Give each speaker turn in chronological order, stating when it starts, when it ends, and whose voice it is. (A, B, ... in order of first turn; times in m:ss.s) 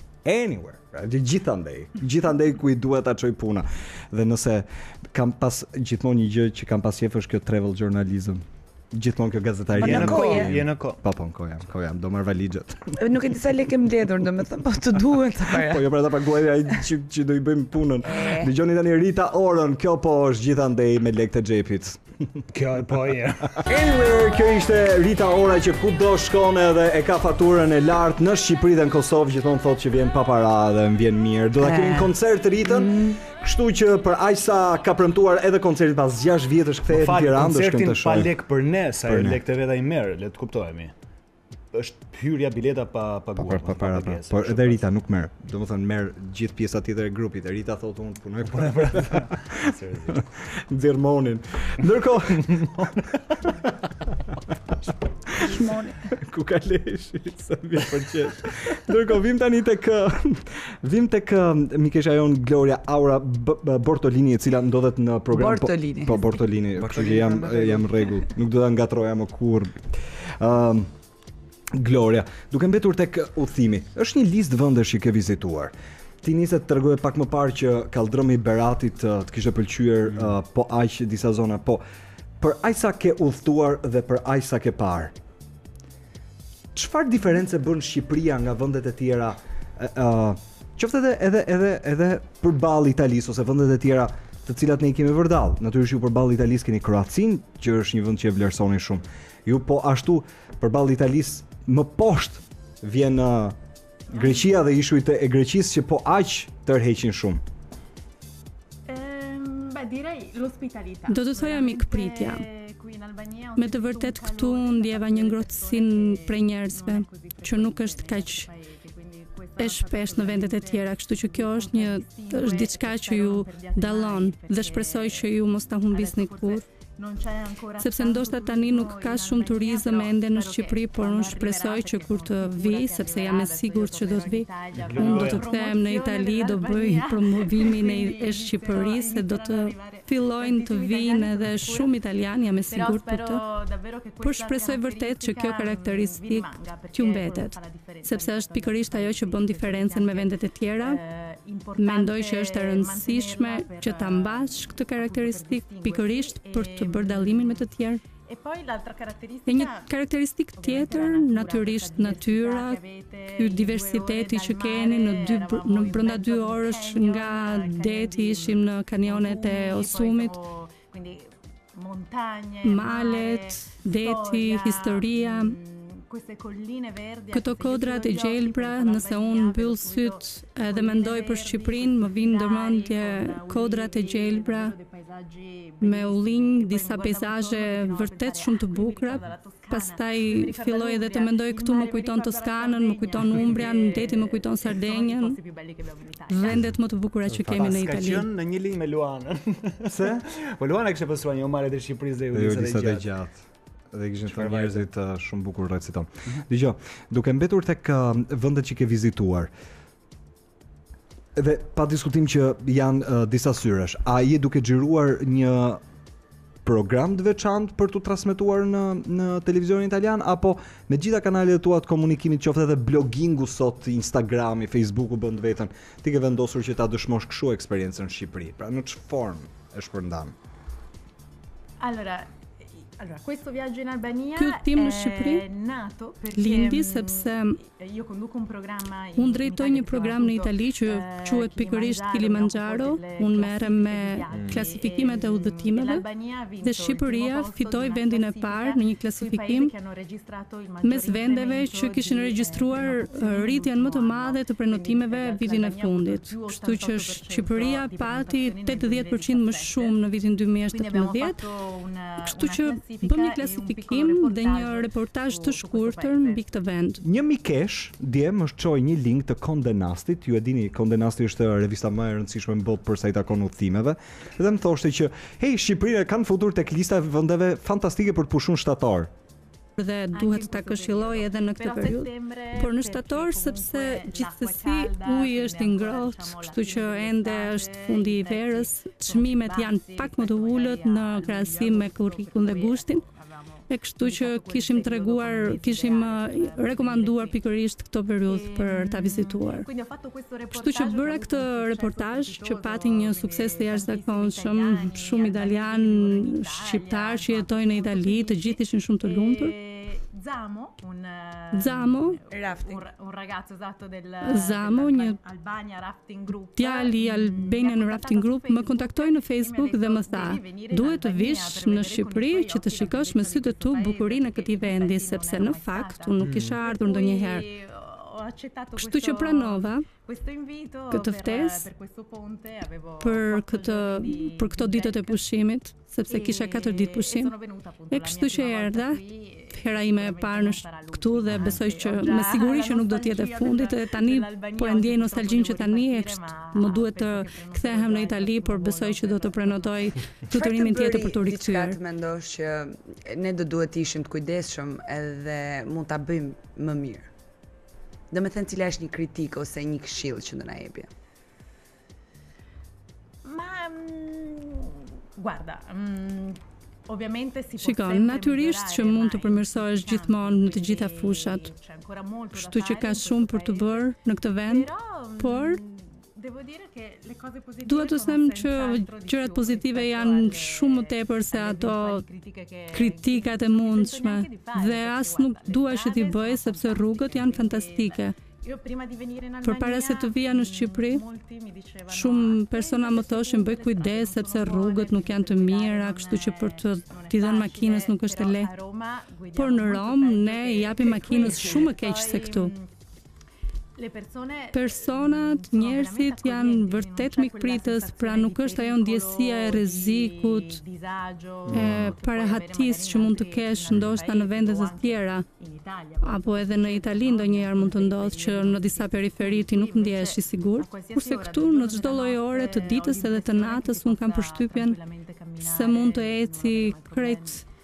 0:00.2-0:13.0 A
0:09.7-0:11.0 B
0:09.8-0:10.6 C
0:12.9-0:15.9 C
0:15.5-0:22.4 A
0:18.0-0:18.5 C
0:22.5-0:23.7 B
0:23.6-0:38.3 A
0:23.7-0:24.0 C
0:31.6-0:32.1 C
0:32.6-0:33.2 C
0:36.9-0:40.9 B
0:39.0-0:39.4 A
0:41.7-0:44.8 B
0:43.4-0:53.7 A
0:48.5-0:50.2 B
0:52.5-0:53.3 B
0:55.3-0:56.1 C
0:56.1-1:10.9 A
1:05.3-1:06.3 C
1:06.8-1:07.9 B
1:11.7-1:21.8 A
1:22.4-1:25.1 A
1:26.7-1:43.6 A
1:44.1-1:47.4 A
1:48.9-2:05.3 D
1:51.1-1:52.4 E
1:53.6-1:58.5 E
1:59.6-2:06.6 E
2:05.9-2:21.9 D
2:07.8-2:23.4 E
2:14.9-2:15.5 B
2:22.7-2:37.7 D
2:24.2-2:31.0 E
2:31.8-2:38.0 E
2:38.2-2:39.9 D
2:39.5-2:42.8 E
2:40.6-3:16.7 D
2:43.4-2:50.3 E
2:52.6-2:55.6 E
2:57.3-3:04.7 E
3:05.8-3:15.4 E
3:13.4-3:14.0 B
3:16.3-3:18.2 E
3:17.4-3:23.1 B
3:19.9-3:20.2 A
3:22.3-3:23.4 A
3:23.9-3:29.5 A
3:24.2-3:24.8 B
3:31.4-3:35.8 A
3:36.6-3:50.3 A
3:51.8-4:19.9 D
3:54.4-3:55.4 E
3:56.4-3:57.6 E
3:59.2-4:06.0 E
4:06.6-4:09.7 E
4:10.8-4:21.4 E
4:20.7-4:26.4 D
4:22.2-4:27.0 E
4:27.0-4:39.1 A
4:39.8-4:53.0 E
4:40.1-4:57.4 D
4:53.7-4:59.7 E
4:58.3-5:35.2 D
5:00.5-5:09.5 E
5:11.5-5:12.2 E
5:12.3-5:12.8 C
5:14.2-5:15.2 E
5:16.6-5:27.5 E
5:26.2-5:26.6 A
5:28.8-5:29.8 E
5:30.9-5:31.7 E
5:33.0-5:37.3 E
5:36.1-5:50.0 D
5:37.9-5:39.0 E
5:39.5-5:51.8 E
5:50.3-5:57.1 C
5:58.1-6:00.9 C
6:03.2-6:13.9 D
6:07.6-6:11.5 E
6:12.3-6:15.6 E
6:14.5-6:42.7 D
6:17.6-6:22.0 E
6:22.7-6:28.1 E
6:29.4-6:31.0 E
6:31.9-6:38.5 E
6:39.4-6:42.5 E
6:43.8-7:07.4 D
6:44.5-6:50.6 E
6:51.5-6:55.2 E
6:51.5-6:51.9 A
6:56.0-7:04.8 E
7:05.4-7:07.4 E